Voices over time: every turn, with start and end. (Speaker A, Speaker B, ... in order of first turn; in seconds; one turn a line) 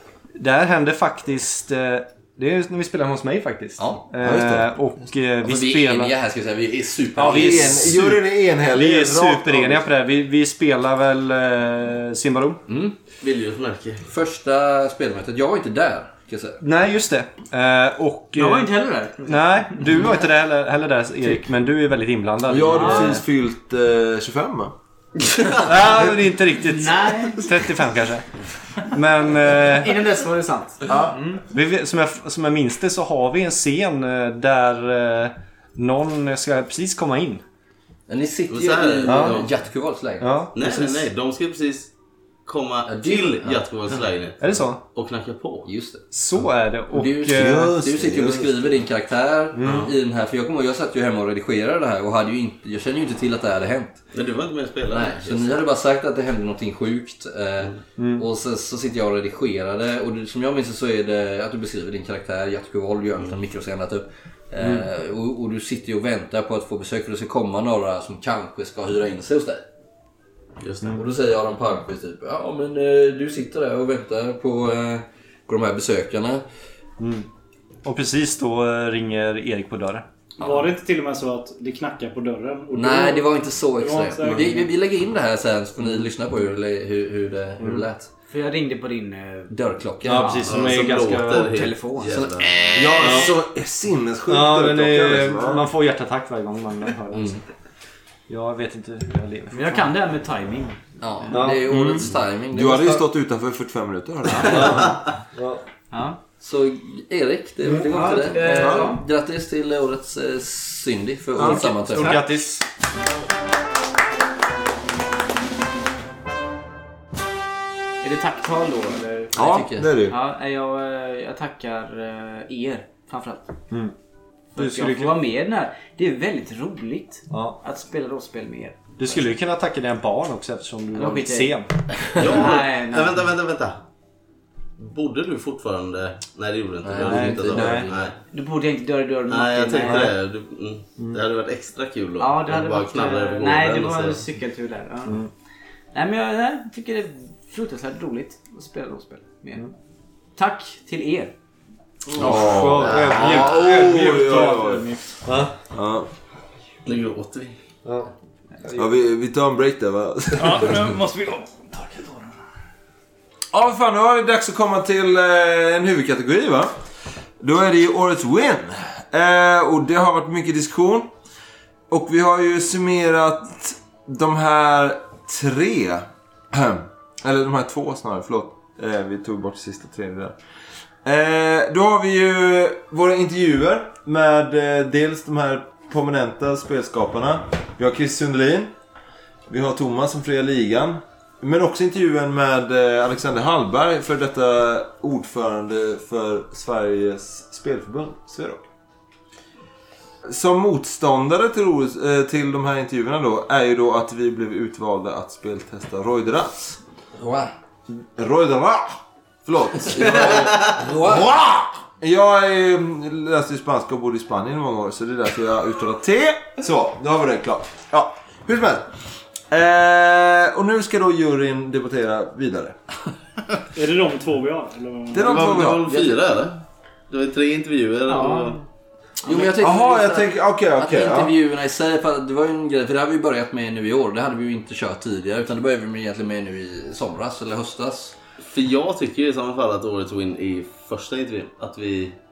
Speaker A: 0.4-6.1
Speaker B: 4.2-4.8
Speaker C: 5.4-8.0
Speaker B: 7.2-9.9
Speaker A: 7.2-8.1
Speaker A: 8.7-12.6
Speaker C: 12.7-12.9
Speaker D: 13.2-14.0
Speaker C: 14.0-16.6
Speaker A: 16.6-18.7
Speaker E: 18.4-20.1
Speaker A: 19.2-23.2
Speaker B: 22.5-24.7
Speaker E: 22.7-23.2
Speaker A: 25.6-28.2
Speaker E: 26.7-27.4
Speaker A: 28.8-30.0
Speaker E: 29.7-31.4
Speaker B: 30.9-31.1
Speaker A: 31.5-37.4
Speaker C: 38.1-40.3
Speaker D: 38.5-39.5
Speaker A: 39.1-39.4
Speaker A: 40.2-41.0
Speaker D: 40.5-41.9
Speaker D: 42.5-45.7
Speaker C: 42.9-43.6
Speaker A: 44.4-44.8
Speaker C: 45.6-46.1
Speaker A: 46.1-47.7
Speaker C: 46.9-54.0
Speaker B: 47.3-48.7
Speaker A: 49.5-49.9
Speaker D: 54.1-55.6
Speaker C: 54.9-69.6
Speaker A: 58.0-58.2
Speaker A: 64.6-64.8
Speaker D: 70.6-71.0
Speaker C: 70.9-76.4
Speaker A: 77.0-77.3
Speaker A: 77.8-80.0
Speaker F: 80.4-84.7
Speaker C: 82.7-88.1
Speaker A: 87.6-87.8
Speaker E: 88.3-89.5
Speaker C: 89.5-90.4
Speaker A: 90.0-91.6
Speaker E: 90.1-92.2
Speaker D: 90.4-92.6
Speaker C: 92.1-93.2
Speaker B: 92.7-95.7
Speaker A: 93.0-93.3
Speaker A: 94.3-97.4
Speaker A: 98.3-99.9
Speaker E: 99.5-101.4
Speaker C: 101.0-103.0
Speaker A: 101.3-101.7
Speaker B: 101.7-105.0
Speaker A: 104.3-105.6
Speaker E: 105.9-106.2
Speaker C: 106.4-112.2
Speaker E: 107.8-109.0
Speaker B: 108.6-108.9
Speaker B: 111.4-111.6
Speaker A: 111.4-112.6
Speaker E: 111.5-112.3
Speaker E: 118.0-119.3
Speaker B: 119.3-120.2
Speaker C: 119.4-119.9
Speaker E: 120.0-123.5
Speaker A: 124.5-125.2
Speaker E: 124.5-129.2
Speaker A: 127.3-127.6
Speaker A: 129.0-131.7
Speaker E: 130.9-131.6
Speaker D: 132.2-133.8
Speaker E: 132.2-133.2
Speaker D: 134.8-138.2
Speaker C: 136.8-138.1
Speaker A: 137.0-137.9
Speaker E: 138.3-140.1
Speaker D: 139.3-144.2
Speaker E: 142.2-145.2
Speaker E: 145.9-149.7
Speaker E: 150.3-151.3
Speaker B: 152.1-154.9
Speaker A: 152.2-154.6
Speaker C: 152.2-152.6
Speaker D: 152.8-153.4
Speaker F: 153.6-155.0
Speaker A: 155.2-155.5
Speaker B: 155.7-156.1
Speaker D: 156.8-157.5
Speaker A: 157.8-158.1
Speaker A: 158.6-158.9
Speaker B: 158.7-160.9
Speaker F: 160.4-162.3
Speaker B: 163.5-166.7
Speaker B: 167.4-171.1
Speaker B: 171.9-180.3
Speaker B: 181.0-188.7
Speaker B: 189.5-198.6
Speaker B: 200.2-206.8
Speaker C: 207.2-207.5
Speaker B: 207.9-218.9
Speaker C: 209.9-211.3
Speaker B: 219.5-222.8
Speaker F: 223.7-225.7
Speaker B: 225.1-225.9
Speaker D: 225.2-228.6
Speaker E: 228.1-228.6
Speaker C: 229.2-238.2
Speaker B: 229.5-231.3
Speaker D: 238.4-242.1